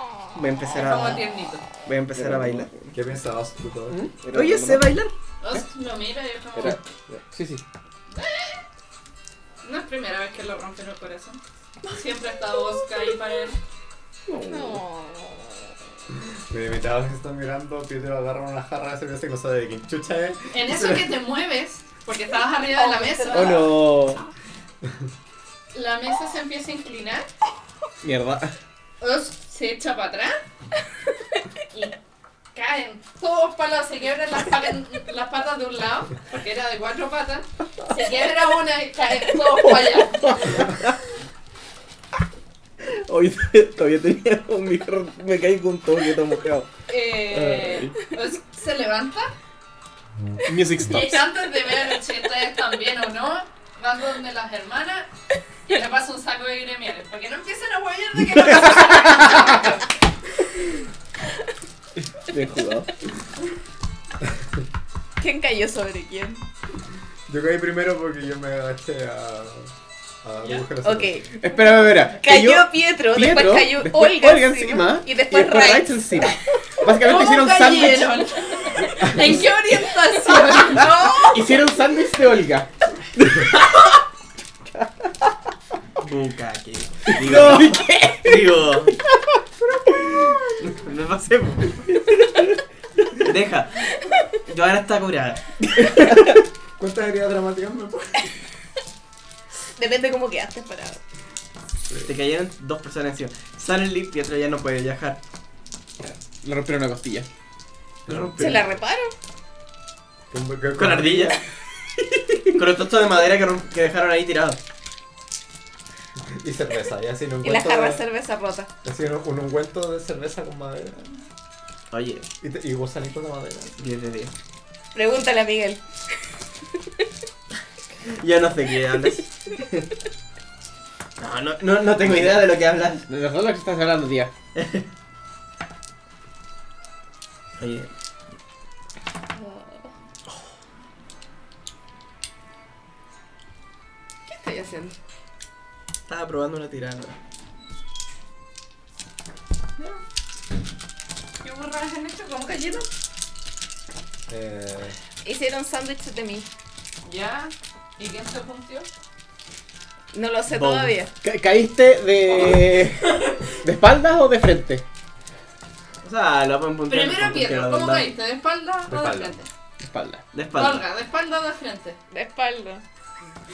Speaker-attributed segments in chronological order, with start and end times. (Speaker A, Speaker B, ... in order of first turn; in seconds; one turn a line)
Speaker A: 0.3-1.2
Speaker B: 0.7-1.6
Speaker A: 1.8-2.7
Speaker C: 2.1-3.0
Speaker D: 2.9-4.0
Speaker A: 3.9-5.1
Speaker C: 4.2-4.9
Speaker B: 5.4-6.8
Speaker C: 6.6-7.3
Speaker B: 8.1-8.7
Speaker B: 9.6-13.6
Speaker C: 14.3-14.8
Speaker E: 14.5-15.6
Speaker D: 16.3-21.1
Speaker B: 20.5-23.7
Speaker E: 22.7-23.7
Speaker C: 23.3-24.2
Speaker B: 25.7-27.3
Speaker F: 28.0-28.5
Speaker B: 29.0-30.4
Speaker B: 31.7-32.0
Speaker B: 32.5-40.8
Speaker C: 40.3-40.9
Speaker C: 42.8-46.7
Speaker B: 46.9-49.3
Speaker C: 47.3-47.9
Speaker F: 50.5-51.2
Speaker B: 50.8-55.1
Speaker B: 55.7-59.8
Speaker C: 62.3-62.9
Speaker E: 65.2-66.4
Speaker D: 67.3-69.7
Speaker D: 70.2-71.2
Speaker E: 70.8-76.3
Speaker F: 71.3-78.2
Speaker B: 76.8-80.9
Speaker E: 80.3-81.6
Speaker F: 81.2-82.7
Speaker A: 86.0-89.0
Speaker F: 87.2-88.2
Speaker C: 87.4-88.0
Speaker D: 89.6-90.6
Speaker A: 90.6-91.8
Speaker A: 93.2-96.0
Speaker D: 96.8-98.3
Speaker E: 99.8-101.0
Speaker A: 102.0-105.2
Speaker F: 106.0-107.3
Speaker D: 108.1-108.7
Speaker E: 108.3-109.1
Speaker D: 110.3-111.4
Speaker A: 110.8-111.4
Speaker A: 112.5-114.6
Speaker D: 116.2-118.0
Speaker E: 117.4-118.7
Speaker D: 118.8-121.2
Speaker A: 121.9-122.3
Speaker D: 122.4-123.8
Speaker A: 123.8-124.3
Speaker E: 124.9-125.8
Speaker A: 128.1-129.9
Speaker A: 131.2-133.1
Speaker F: 133.1-134.3
Speaker A: 134.5-134.9
Speaker A: 137.6-137.9
Speaker E: 139.3-139.9
Speaker E: 144.3-145.0
Speaker A: 146.1-147.2
Speaker B: 151.4-152.9
Speaker D: 154.3-155.0
Speaker E: 155.2-156.5
Speaker B: 157.0-158.9
Speaker E: 160.1-161.1
Speaker A: 160.5-160.9
Speaker F: 161.2-164.8
Speaker A: 166.0-168.1
Speaker B: 166.9-169.5
Speaker D: 168.9-169.4
Speaker F: 169.8-170.2
Speaker A: 170.3-170.8
Speaker B: 170.5-172.0
Speaker E: 172.1-172.8